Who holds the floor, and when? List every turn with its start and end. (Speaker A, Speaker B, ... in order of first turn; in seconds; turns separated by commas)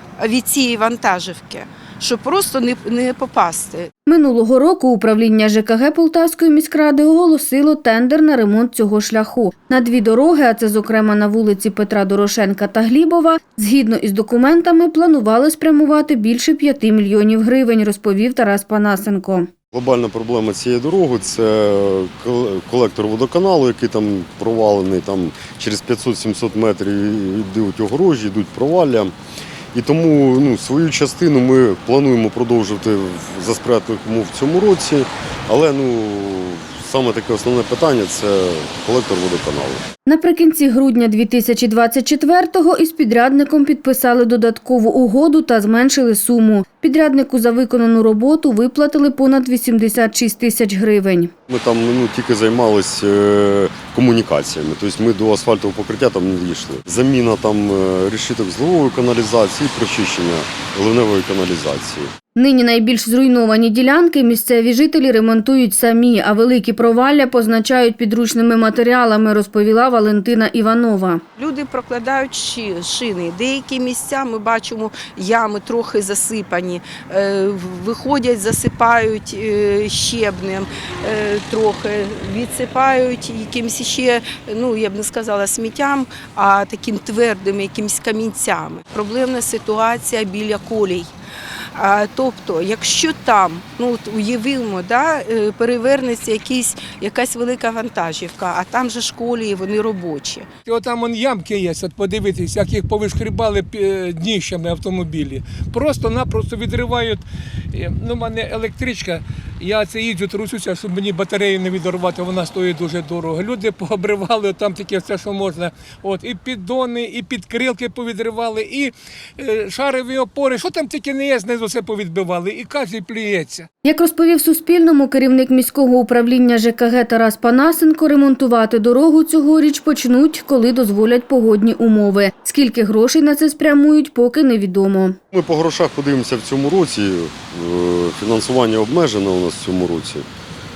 Speaker A: 0.2-3.9, Speaker B: 4.1-19.5, Speaker C: 19.7-29.1, Speaker C: 29.7-39.8, Speaker B: 40.0-51.3, Speaker C: 51.5-62.1, Speaker B: 62.4-71.2, Speaker A: 71.4-91.1, Speaker A: 91.8-100.5, Speaker D: 100.7-123.7, Speaker B: 123.8-135.2, Speaker C: 135.3-140.2